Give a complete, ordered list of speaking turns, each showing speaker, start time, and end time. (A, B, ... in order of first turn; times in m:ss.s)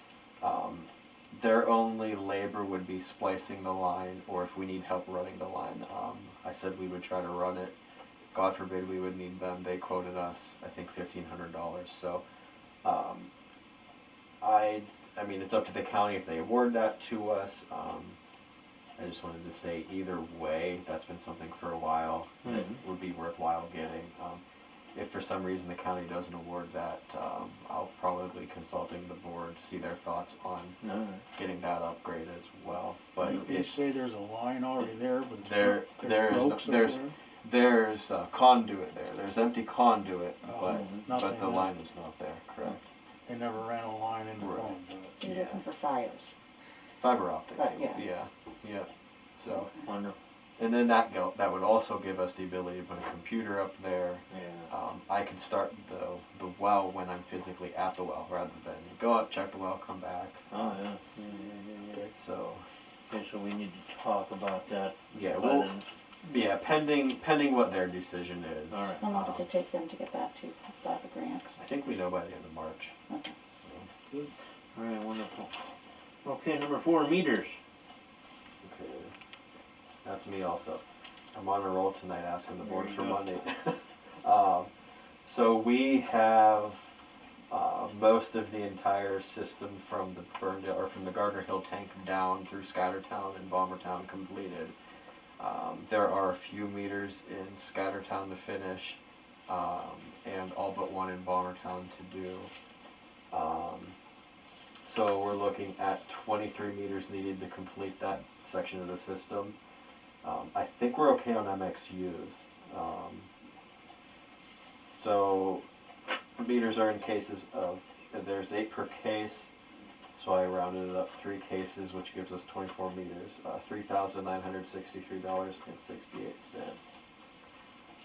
0:00.4-0:07.8 A
0:08.3-0:12.2 A
0:12.8-0:13.3 A
0:14.4-0:18.2 A
0:19.0-0:24.4 A
0:22.4-0:22.8 B
0:24.9-0:30.8 A
0:30.8-0:31.2 B
0:31.3-0:33.9 A
0:33.2-0:37.1 C
0:35.4-0:42.8 A
0:40.4-0:41.7 C
0:40.6-0:41.1 B
0:43.3-0:45.2 C
0:44.4-0:45.6 A
0:45.2-0:46.3 D
0:47.0-0:49.7 A
0:47.6-0:48.0 D
0:49.5-0:49.9 D
0:49.8-0:50.2 B
0:50.6-1:00.5 A
0:54.3-0:54.7 B
1:00.5-1:02.1 B
1:02.2-1:02.6 A
1:03.1-1:05.9 B
1:05.1-1:05.7 A
1:06.2-1:09.5 A
1:08.7-1:09.1 B
1:09.0-1:11.6 D
1:11.6-1:12.9 A
1:13.1-1:13.3 D
1:13.6-1:13.9 A
1:14.8-1:15.5 B
1:16.2-1:17.6 B
1:18.6-1:19.1 A
1:20.0-1:24.7 A
1:22.6-1:23.2 B
1:25.2-1:26.9 A
1:27.5-1:34.8 A
1:35.4-1:42.5 A
1:43.3-1:44.0 A
1:44.8-1:49.6 A
1:50.2-1:53.3 A
1:54.9-1:55.6 A
1:56.4-1:59.5 A
2:00.1-2:07.0 A